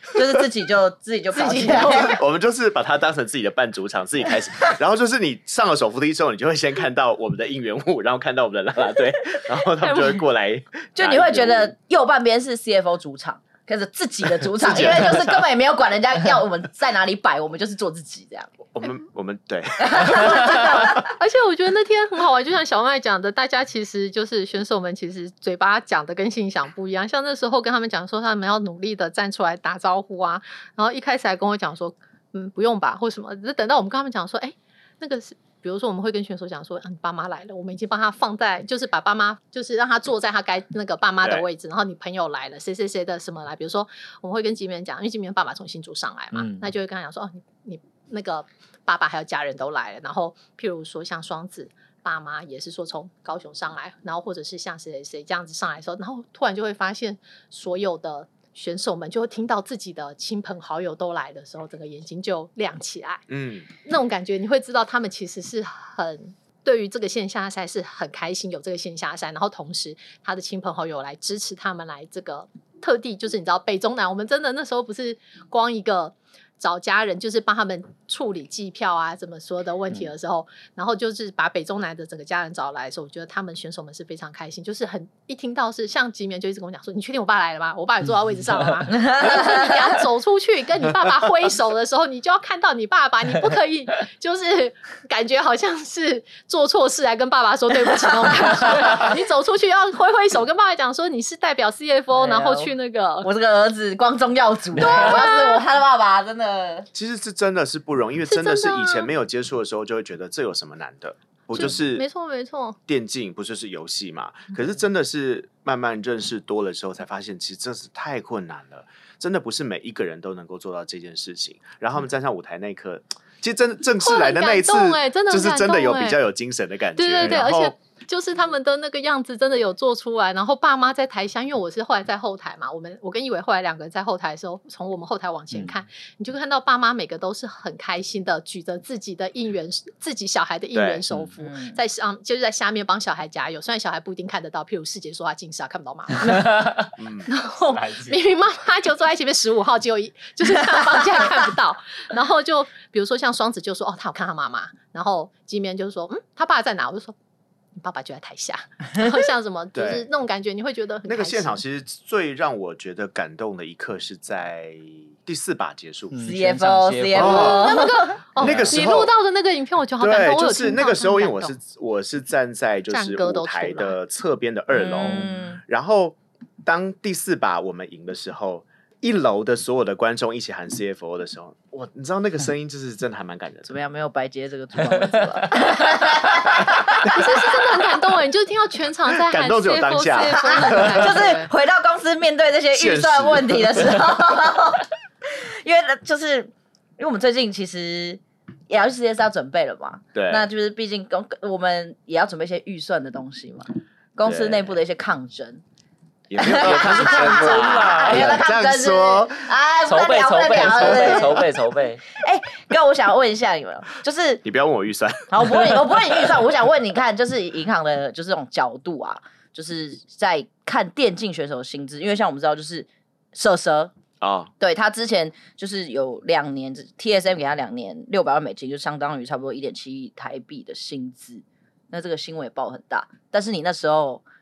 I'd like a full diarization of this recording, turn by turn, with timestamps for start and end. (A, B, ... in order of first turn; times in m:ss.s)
0:00.1-0:02.2 A
0:01.3-0:02.2 B
0:01.9-0:11.7 C
0:09.8-0:10.2 B
0:11.0-0:18.5 A
0:14.5-0:15.4 C
0:18.7-0:20.7 C
0:19.8-0:21.0 A
0:20.3-1:03.2 B
0:46.3-0:46.7 D
1:03.3-1:03.7 C
1:03.8-1:43.3 B
1:29.0-1:29.8 A
1:42.2-1:46.9 A
1:44.8-1:45.6 B
1:46.9-1:52.0 C
1:48.3-1:49.1 B
1:51.5-1:52.8 B
1:52.9-2:07.7 C
2:04.0-2:06.2 B
2:07.0-2:37.2 B
2:20.7-2:21.0 C
2:21.4-2:21.8 A
2:27.0-2:27.3 C
2:27.7-2:28.2 D
2:37.8-2:41.6 B
2:39.8-2:40.1 C
2:41.1-2:46.2 C
2:46.1-2:47.6 D
2:46.2-2:48.2 A
2:47.1-2:47.7 C
2:47.3-2:51.6 B
2:48.4-2:49.1 C
2:48.4-2:48.8 D
2:50.0-3:03.7 C
2:52.9-2:54.0 B
2:54.8-2:55.6 A
3:03.7-3:07.2 A
3:05.0-3:05.4 D
3:07.0-3:11.5 B
3:09.2-3:11.4 C
3:10.4-3:25.6 A
3:12.7-3:14.0 C
3:20.1-3:20.5 C
3:24.2-3:24.7 C
3:26.3-3:29.5 C
3:26.4-3:31.4 A
3:26.5-3:28.4 D
3:29.9-3:32.0 D
3:32.1-3:34.4 A
3:34.4-3:35.9 C
3:35.3-3:43.9 A
3:44.2-3:44.5 C
3:44.6-3:54.2 A